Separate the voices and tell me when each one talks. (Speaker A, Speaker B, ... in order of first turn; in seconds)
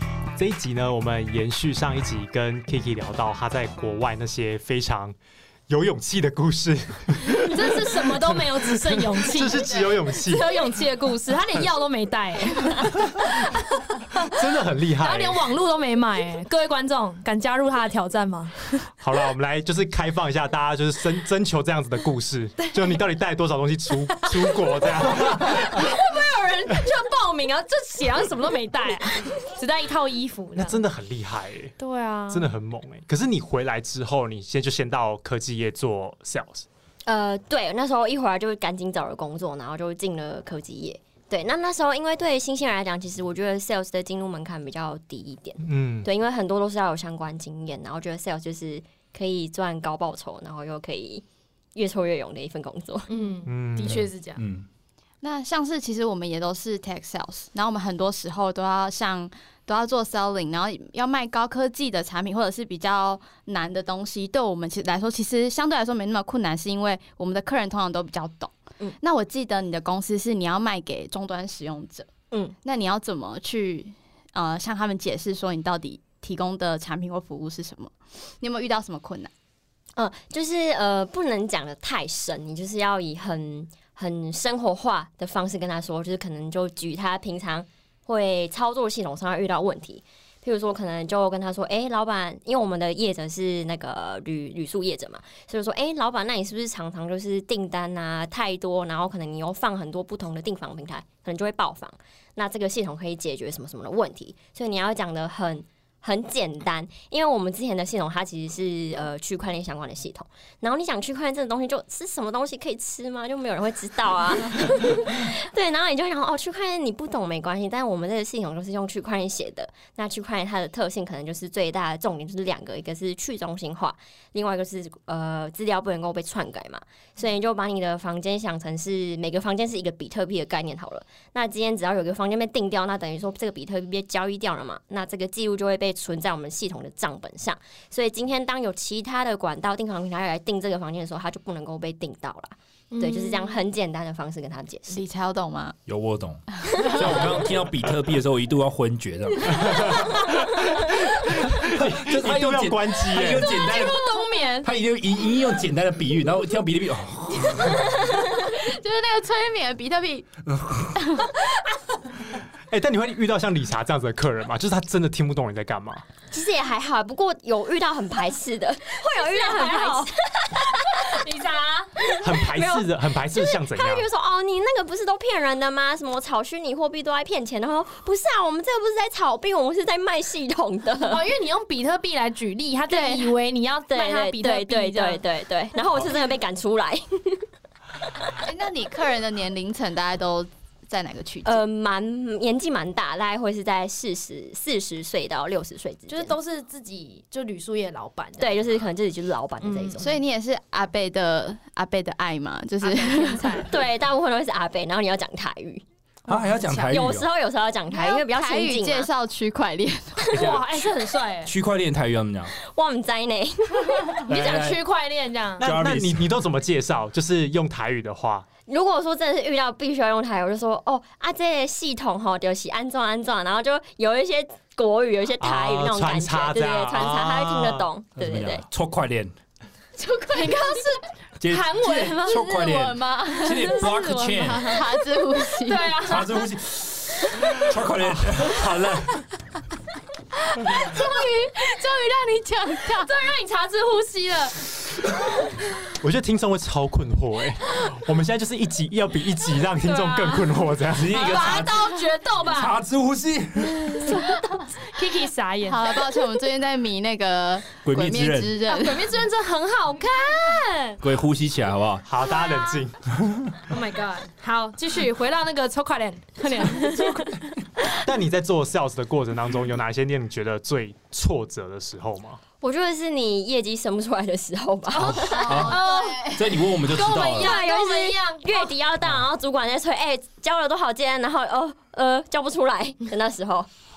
Speaker A: 0.3-5.2, 5.7-10.8, 14.2-15.5, 19.0-25.9, 30.6-31.8, 32.3-36.7, 45.6-46.1, 53.4-54.1, 149.5-153.6, 162.7-166.0, 172.2-174.1, 215.6-218.5, 225.4-227.9, 238.3-239.2, 246.0-251.4, 262.0-263.0, 268.0-272.4
Speaker B: 7.2-14.4, 15.0-18.9, 24.1-30.8, 31.8-32.5, 53.1-54.4, 142.9-143.6, 153.4-154.7, 169.2-170.1, 170.7-172.1, 180.9-185.2, 196.1-198.7, 199.6-200.0, 202.8-203.8, 210.3-211.5, 214.1-215.7, 230.2-234.8, 240.6-242.0, 242.8-244.7, 249.8-250.5, 251.1-252.8, 253.7-256.4, 258.6-261.0, 262.4-262.7, 263.7-267.6, 274.9-278.7
Speaker C: 37.0-51.2, 51.7-53.1, 72.3-72.5, 80.0-145.0, 166.3-171.2, 172.0-181.2, 182.9-183.3, 183.9-187.4, 191.4-196.3, 198.4-200.1, 203.7-205.8, 206.9-209.1, 212.6-214.2, 218.7-228.6, 235.7-236.4, 272.6-275.6, 277.1-283.7
Speaker D: 53.8-54.6, 145.8-154.1, 154.6-158.1, 160.5-161.0, 206.3-207.3, 210.3-210.6, 211.4-212.5, 214.3-214.8, 215.6-216.4, 228.2-229.3, 231.4-234.8, 236.0-238.8, 250.9-254.2, 257.8-258.6, 261.0-262.1, 263.2-263.5, 274.9-277.5
Speaker E: 55.2-72.1, 72.6-79.3, 144.9-145.8, 146.7-147.4, 158.3-160.3, 160.9-161.4, 188.4-191.6, 200.0-203.6, 206.3-207.1, 207.9-210.5, 230.0-231.0, 232.2-236.1, 240.7-243.1, 254.2-254.6, 255.6-259.1, 275.4-276.6